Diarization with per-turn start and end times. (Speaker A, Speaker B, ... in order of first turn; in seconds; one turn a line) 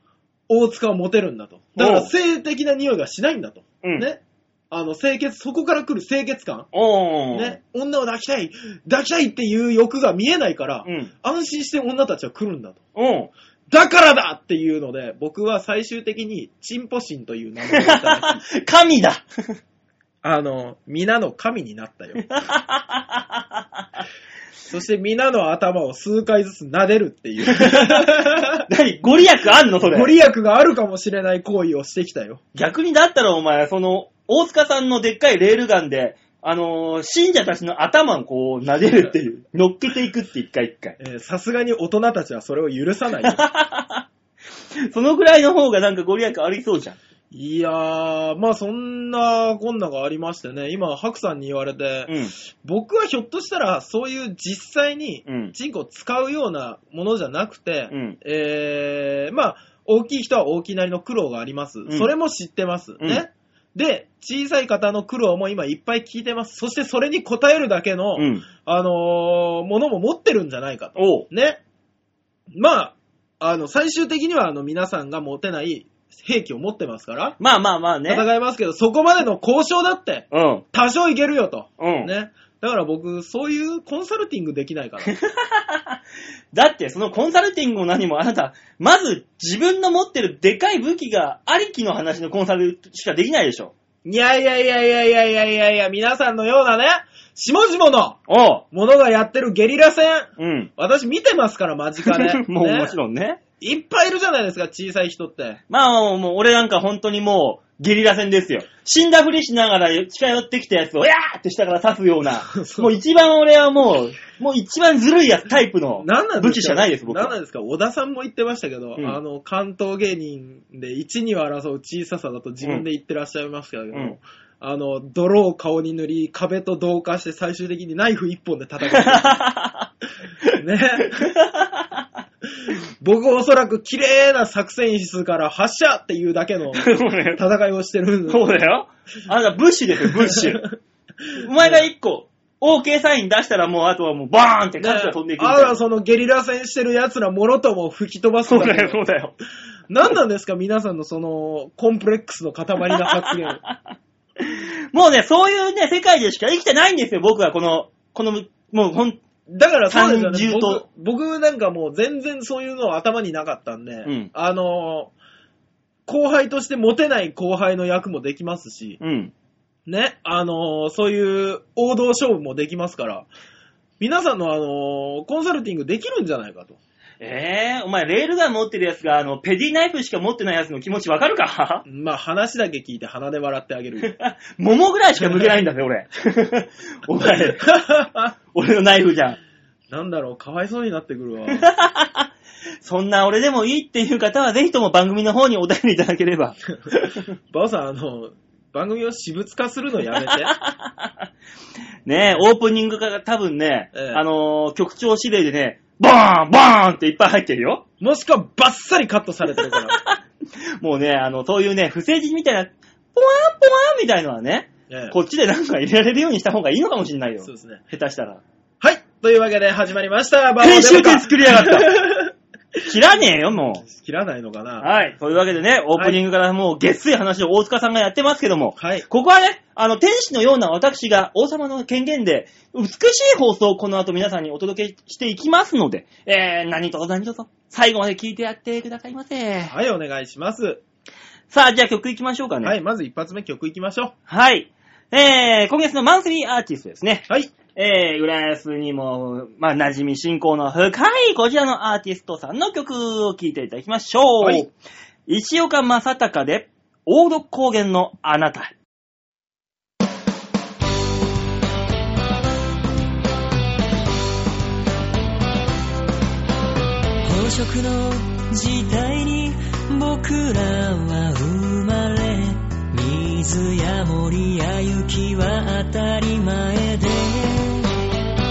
Speaker A: 0.5-6.7
Speaker B: 1.8-2.1
Speaker B: 6.7-7.6
Speaker A: 7.3-12.8
Speaker B: 10.8-11.1
Speaker B: 13.0-13.3
Speaker A: 13.7-18.4
Speaker B: 17.7-19.2
Speaker A: 20.2-22.2
Speaker B: 22.2-23.8
Speaker A: 24.7-28.7
Speaker B: 27.5-30.1
Speaker A: 29.8-32.4
Speaker B: 32.5-41.0
Speaker A: 41.0-43.4
Speaker B: 43.2-44.0
Speaker B: 44.9-47.0
Speaker A: 47.3-71.6
Speaker B: 52.1-52.3
Speaker B: 55.3-55.5
Speaker B: 57.9-58.2
Speaker B: 68.2-68.5
Speaker B: 71.0-71.3
Speaker A: 72.5-77.4
Speaker B: 77.4-78.3
Speaker A: 78.1-85.1
Speaker B: 80.3-80.6
Speaker B: 81.8-82.1
Speaker B: 85.0-86.0
Speaker B: 86.5-93.7
Speaker A: 94.0-98.2
Speaker B: 98.3-98.6
Speaker A: 98.7-103.0
Speaker B: 100.4-100.7
Speaker B: 102.0-103.4
Speaker A: 103.6-105.6
Speaker B: 105.7-117.4
Speaker A: 112.5-113.0
Speaker A: 116.0-129.4
Speaker B: 128.9-129.9
Speaker B: 130.4-132.0
Speaker A: 130.6-131.3
Speaker A: 132.7-138.4
Speaker B: 136.7-137.4
Speaker B: 138.3-140.7
Speaker A: 140.1-140.6
Speaker B: 141.4-145.8
Speaker A: 141.6-141.9
Speaker A: 144.8-149.0
Speaker B: 148.5-149.3
Speaker A: 149.9-153.6
Speaker B: 152.9-153.8
Speaker B: 154.4-159.2
Speaker A: 159.5-165.1
Speaker B: 159.9-160.8
Speaker B: 164.1-164.3
Speaker A: 166.1-169.0
Speaker B: 169.0-169.3
Speaker A: 169.9-173.3
Speaker A: 174.0-176.8
Speaker B: 177.2-181.8
Speaker A: 181.9-184.2
Speaker B: 184.0-187.7
Speaker A: 185.2-185.5
Speaker A: 187.2-188.3
Speaker B: 188.5-189.4
Speaker A: 189.9-191.7
Speaker B: 191.5-192.3
Speaker B: 192.8-197.2
Speaker A: 197.5-200.5
Speaker B: 200.3-201.2
Speaker B: 202.1-207.8
Speaker A: 203.9-204.2
Speaker A: 208.0-210.0
Speaker B: 209.6-210.2
Speaker B: 210.8-218.4
Speaker A: 214.9-215.2
Speaker A: 217.4-217.8
Speaker A: 218.8-222.3
Speaker B: 220.6-222.2
Speaker B: 222.8-223.8
Speaker A: 223.8-224.9
Speaker B: 224.8-239.7
Speaker A: 228.8-229.1
Speaker A: 239.7-240.8
Speaker B: 241.5-242.8
Speaker A: 242.6-244.1
Speaker B: 244.3-254.7
Speaker A: 247.3-247.5
Speaker A: 254.4-254.7
Speaker B: 255.3-258.7
Speaker C: 267.2-277.9